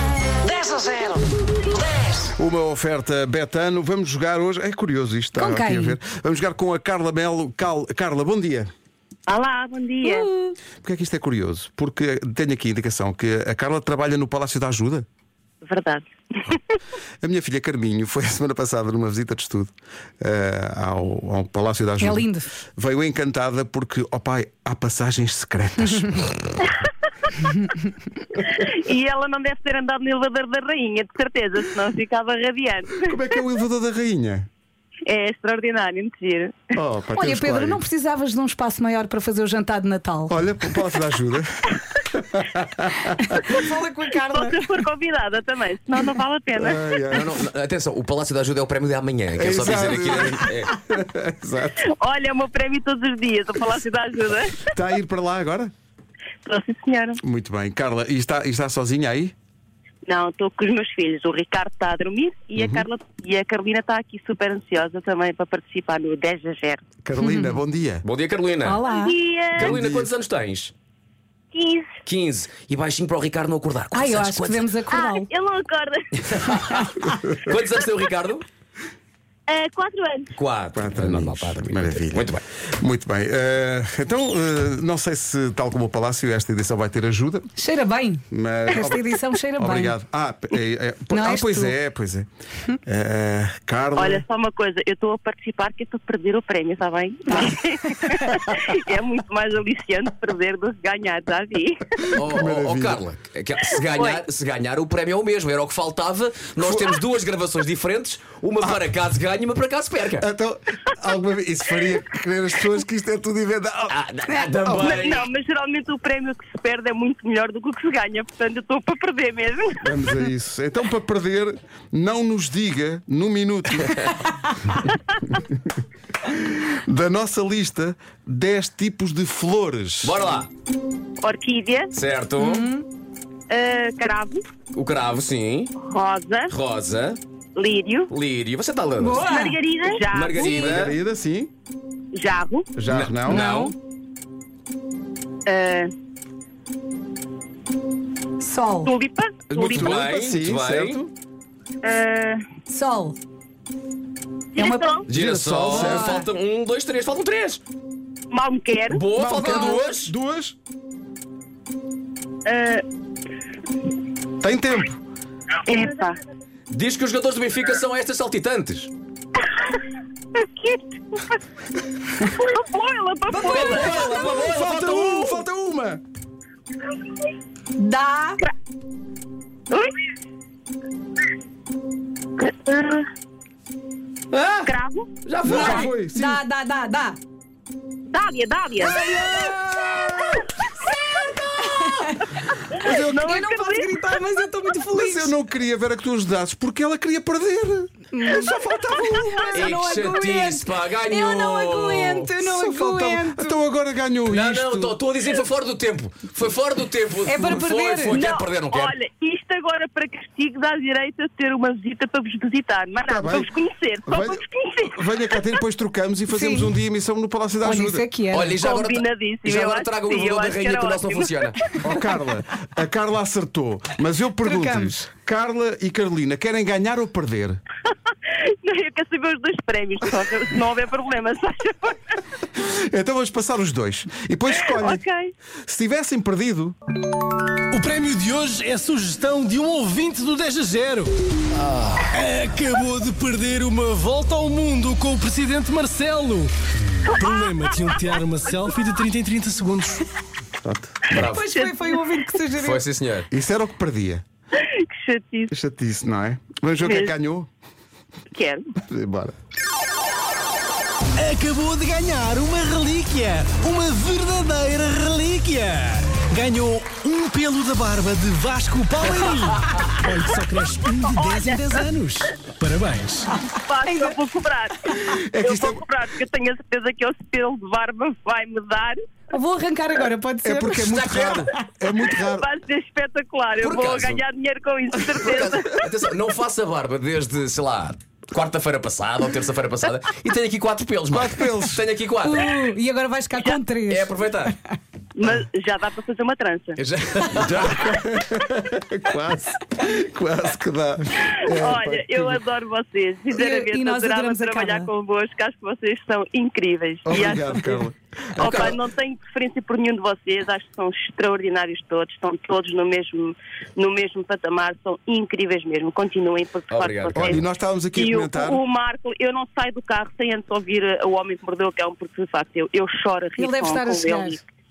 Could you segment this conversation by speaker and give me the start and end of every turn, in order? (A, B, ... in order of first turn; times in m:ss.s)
0:02.4-0:08.7 A
0:05.4-0:06.0 B
0:09.3-0:10.3 C
0:10.0-0:10.6 B
0:10.8-0:15.1 A
0:15.6-0:16.6 C
0:17.2-0:26.4 A
0:22.0-0:22.5 B
0:27.5-0:27.8 B
0:28.4-0:33.2 C
0:33.0-0:34.5 A
0:35.1-0:36.6 C
0:36.8-0:37.8 A
0:37.2-0:40.4 B
0:40.3-0:43.1 A
0:43.1-0:44.7 B
0:44.2-0:47.2 C
0:46.6-0:47.3 A
0:47.1-0:50.8 D
0:49.3-0:51.8 A
0:51.9-0:54.7 C
0:54.6-0:55.7 A
0:56.4-0:57.2 C
0:57.2-0:59.3 A
1:00.1-1:06.8 C
1:02.6-1:02.9 A
1:07.0-1:08.0 A
1:07.2-1:07.6 B
1:08.0-1:08.8 D
1:08.6-1:09.2 B
1:08.8-1:09.8 C
1:09.5-1:10.7 D
1:09.6-1:10.1 A
1:11.5-1:11.9 C
1:12.0-1:14.7 D
1:13.9-1:15.3 B
1:14.9-1:16.6 C
1:16.2-1:18.4 D
1:19.5-1:20.3 C
1:20.3-1:22.4 D
1:20.8-1:27.5 A
1:27.6-1:30.0 B
1:28.3-1:32.3 A
1:31.1-1:31.8 B
1:32.8-1:34.2 A
1:34.0-1:42.2 C
1:42.1-1:50.3 D
1:42.2-1:43.0 A
1:43.9-1:44.2 C
1:46.6-1:47.0 A
1:50.2-1:54.0 A
1:53.9-1:55.3 D
1:54.6-1:54.9 A
1:54.8-1:59.9 C
1:59.8-2:04.1 A
2:05.3-2:05.6 A
2:06.3-2:10.2 A
2:10.0-2:10.5 D
2:11.2-2:11.9 C
2:11.9-2:12.7 D
2:12.4-2:12.9 B
2:13.5-2:14.4 C
2:14.7-2:15.7 D
2:15.8-2:16.5 C
2:16.5-2:17.2 D
2:17.6-2:18.1 C
2:18.1-2:19.2 D
2:19.0-2:19.6 B
2:19.2-2:20.9 C
2:20.1-2:21.0 D
2:20.4-2:21.5 A
2:22.1-2:22.7 C
2:22.8-2:23.6 A
2:22.9-2:23.7 D
2:23.3-2:23.7 B
2:25.5-2:25.9 C
2:28.4-2:28.9 B
2:28.8-2:29.9 C
2:29.5-2:31.0 D
2:29.5-2:31.1 A
2:31.8-2:32.4 C
2:32.7-2:33.2 B
2:34.6-2:35.0 C
2:34.6-2:35.0 B
2:35.1-2:36.2 A
2:35.1-2:37.6 D
2:35.6-2:36.3 B
2:38.3-2:39.0 C
2:38.9-2:40.1 D
2:39.2-2:40.6 A
2:39.4-2:39.8 B
2:42.5-2:42.8 C
2:44.4-2:45.0 A
2:45.7-2:46.2 C
2:46.7-2:48.9 D
2:50.4-2:51.0 C
2:52.3-2:54.0 C
2:53.3-2:55.0 B
2:53.4-2:56.0 A
2:53.5-2:55.3 D
2:57.8-2:58.4 B
3:02.4-3:03.1 C
3:04.3-3:04.7 D
3:04.6-3:05.1 C
3:05.2-3:05.9 D
3:05.4-3:07.2 B
3:05.4-3:06.4 A
3:08.1-3:09.0 C
3:08.8-3:15.3 B
3:09.2-3:10.4 A
3:12.8-3:13.2 A
3:12.9-3:14.2 C
3:14.9-3:19.7 A
3:18.1-3:23.6 B
3:19.5-3:22.3 D
3:22.4-3:25.0 A
3:24.3-3:28.9 D
3:27.2-3:28.2 B
3:28.1-3:35.4 C
3:33.1-3:33.5 A
3:34.1-3:38.0 A
3:36.3-3:36.7 B
3:37.6-3:38.6 B
3:38.3-3:41.6 D
3:38.6-3:41.8 C
3:41.8-3:47.6 A
3:44.4-3:45.0 B
3:48.6-3:52.0 C
3:52.6-3:55.0 A
3:54.6-3:55.3 C
3:55.7-3:56.8 A
3:57.7-4:01.2 E
4:01.6-4:02.0 D
4:02.1-4:06.5 E
4:07.0-4:10.1 E
4:07.2-4:07.8 C
4:10.6-4:11.3 A
4:11.1-4:11.5 D
4:11.3-4:12.8 B
4:11.4-4:12.3 C
4:12.6-4:13.3 D
4:13.3-4:14.2 A
4:14.6-4:15.5 C
4:15.5-4:17.5 A
4:16.8-4:17.1 C
4:18.3-4:18.7 C
4:18.8-4:19.3 A
4:21.2-4:33.3 E
4:33.7-4:39.0 C
4:33.8-4:34.2 B
4:35.1-4:35.8 A
4:39.3-4:41.0 B
4:40.4-4:42.5 A
4:40.9-4:41.5 D
4:42.2-4:45.8 C
4:43.6-4:44.2 D
4:45.2-4:52.5 D
4:51.1-4:51.8 A
4:52.2-4:54.8 B
4:53.4-4:53.6 C
4:53.9-4:54.6 D
4:55.2-4:56.8 C
4:56.8-4:57.9 D
4:57.4-5:02.4 A
5:01.3-5:07.8 C
5:03.3-5:04.9 B
5:07.0-5:08.0 A
5:08.4-5:08.8 D
5:08.4-5:17.4 C
5:16.7-5:17.4 D
5:17.2-5:18.6 A
5:18.0-5:24.4 C
5:23.4-5:24.4 B